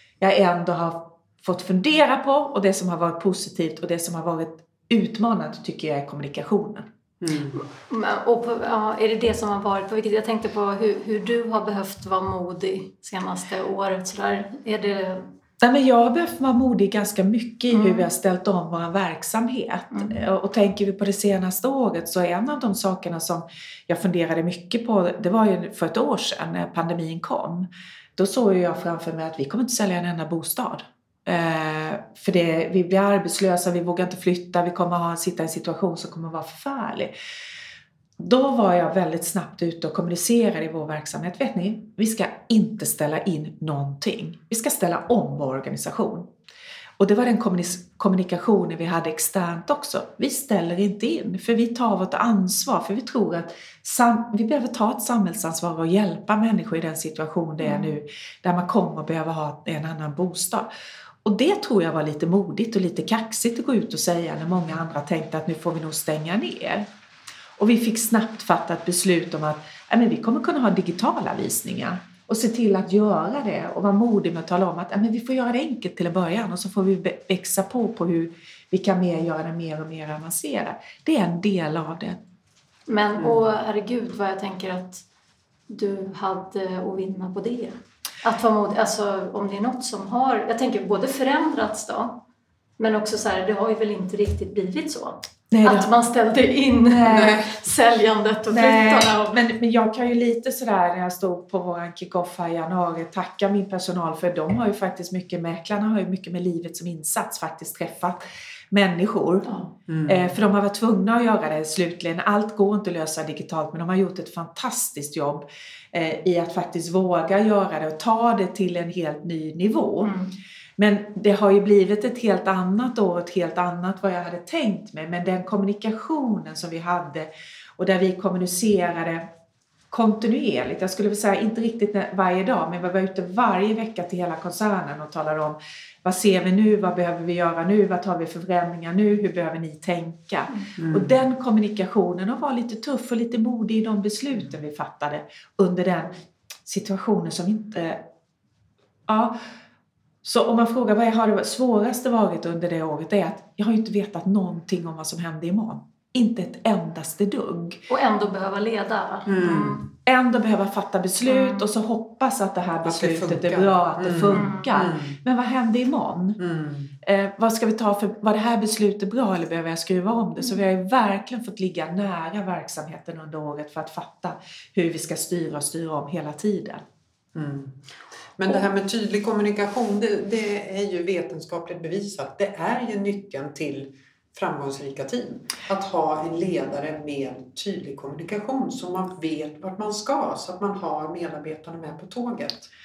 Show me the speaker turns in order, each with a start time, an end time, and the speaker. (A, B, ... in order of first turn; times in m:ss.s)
0:00.2-0:06.8 A
0:07.2-0:07.6 B
0:07.5-0:15.3 C
0:15.6-0:37.1 A
0:17.7-0:18.1 C
0:19.9-0:20.2 C
0:38.2-0:46.3 A
0:47.0-1:00.7 A
0:57.6-0:57.9 C
1:01.2-1:06.9 A
1:07.6-1:22.2 A
1:22.9-1:25.0 C
1:25.7-1:32.2 C
1:32.8-1:39.4 C
1:35.5-1:35.9 A
1:36.9-1:37.4 A
1:38.5-1:49.5 A
1:49.9-1:50.2 B
1:50.1-2:00.1 A
2:00.0-2:00.3 C
2:00.8-2:09.2 A
2:09.9-2:26.1 A
2:20.8-2:21.2 B
2:26.6-2:28.0 A
2:29.1-2:29.4 A
2:30.2-2:37.8 A
2:37.9-2:39.9 C
2:39.3-2:39.8 B
2:40.0-2:46.4 A
2:41.2-2:41.7 C
2:42.8-2:45.2 B
2:44.3-2:44.7 C
2:46.4-2:46.9 B
2:47.0-2:56.8 A
2:57.3-2:57.7 B
2:58.4-3:12.7 B